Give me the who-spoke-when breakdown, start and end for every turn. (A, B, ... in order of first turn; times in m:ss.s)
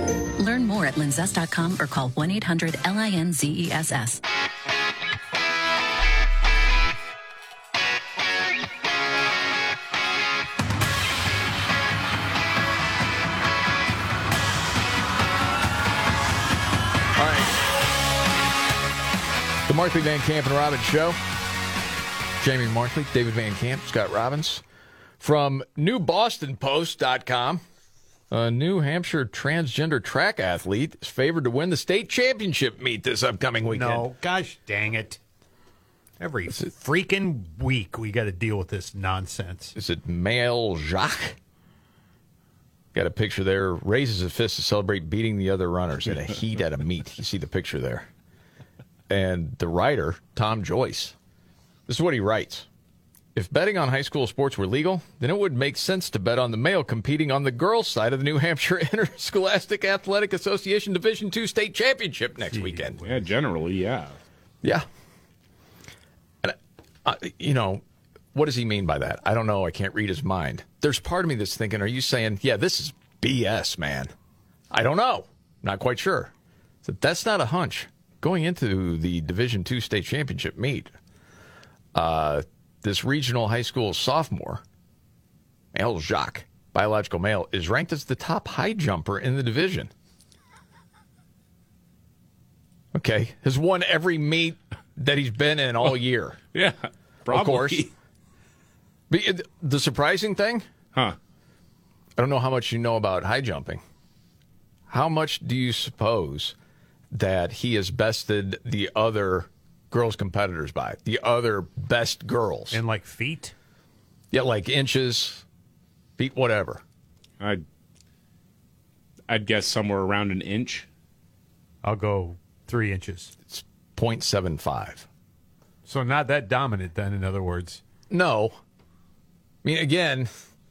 0:00.4-0:04.2 A
0:17.2-0:17.5 B
0:19.7-0:21.2 B
0:22.4-0:24.6 B
0:25.2-0:27.6 B
0:28.3-0:34.1 B
0:33.7-0:35.2 C
0:36.2-0:39.7 C
0:39.8-0:41.4 B
0:42.9-0:48.1 B
0:49.1-0:51.1 B
0:51.9-0:52.7 B
0:53.3-1:03.0 B
1:02.5-1:02.9 C
1:03.0-1:04.1 D
1:06.4-1:07.8 B
1:08.3-1:14.1 B
1:14.7-1:16.3 B
1:16.8-1:20.9 B
1:21.9-1:24.6 B
1:25.7-1:29.9 B
1:32.9-1:36.4 B
1:36.5-1:37.9 D
1:37.3-1:37.8 B
1:39.1-1:40.6 B
1:42.2-1:43.8 B
1:44.9-1:46.5 B
1:47.1-1:52.8 B
1:52.7-1:53.5 C
1:54.3-1:55.4 B
1:56.2-1:56.8 B
1:59.3-2:00.9 D
2:01.8-2:03.3 C
2:03.5-2:05.1 B
2:05.9-2:07.8 C
2:08.1-2:08.6 B
2:09.6-2:10.3 B